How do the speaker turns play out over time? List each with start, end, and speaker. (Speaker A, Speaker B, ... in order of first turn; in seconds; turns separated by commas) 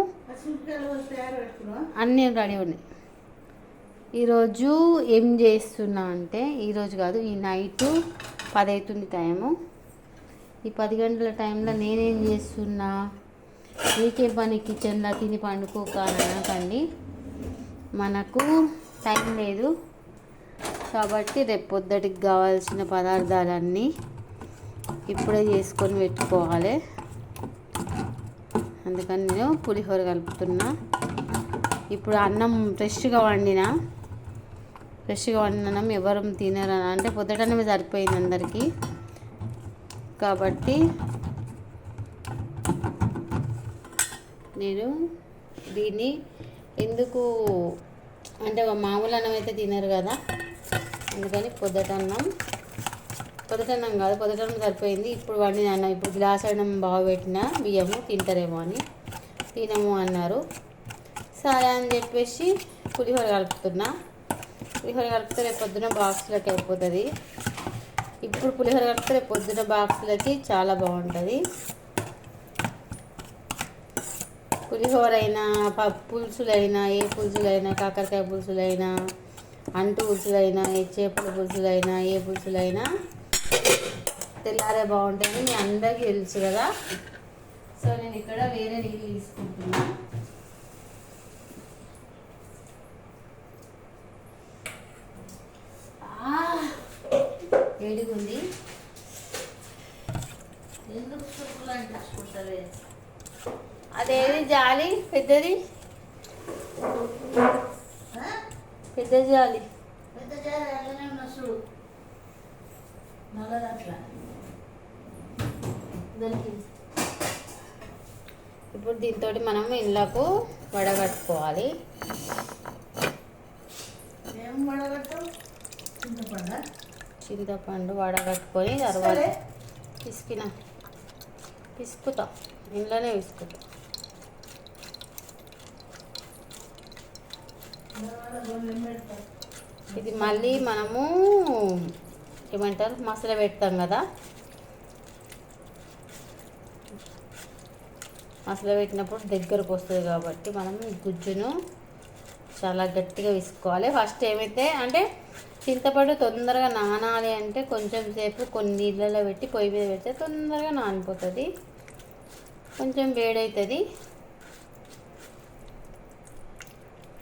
Speaker A: 0.3-1.9, Speaker B: 1.9-2.8, Speaker B: 4.2-7.9, Speaker B: 8.5-9.5, Speaker B: 10.7-12.9, Speaker B: 13.9-16.8, Speaker B: 18.0-18.5, Speaker B: 19.0-19.7, Speaker B: 20.9-23.9, Speaker B: 25.1-26.8, Speaker B: 28.8-30.7, Speaker B: 31.9-33.7, Speaker B: 35.1-38.6, Speaker B: 40.2-40.8, Speaker B: 44.6-44.9, Speaker B: 45.7-46.1, Speaker B: 46.8-47.3, Speaker B: 48.4-50.2, Speaker B: 51.1-52.3, Speaker B: 53.5-58.8, Speaker B: 59.5-60.4, Speaker B: 61.4-63.9, Speaker B: 64.8-67.1, Speaker B: 68.2-71.4, Speaker B: 74.7-78.9, Speaker B: 79.8-82.9, Speaker B: 84.4-86.7, Speaker B: 87.8-89.9, Speaker A: 96.1-96.6, Speaker B: 97.8-98.4, Speaker A: 100.9-102.7, Speaker B: 103.9-105.6, Speaker A: 108.1-108.4, Speaker B: 108.9-109.6, Speaker A: 110.1-111.6, Speaker A: 113.3-114.0, Speaker A: 116.1-116.6, Speaker B: 118.7-121.7, Speaker A: 124.3-125.2, Speaker A: 126.0-126.6, Speaker B: 127.2-129.3, Speaker A: 128.9-129.3, Speaker B: 130.0-130.5, Speaker B: 131.8-133.6, Speaker A: 137.9-139.2, Speaker A: 139.9-140.9, Speaker B: 139.9-141.1, Speaker B: 142.5-144.0, Speaker B: 148.5-151.5, Speaker B: 152.6-155.0, Speaker B: 155.7-161.5, Speaker B: 162.8-163.8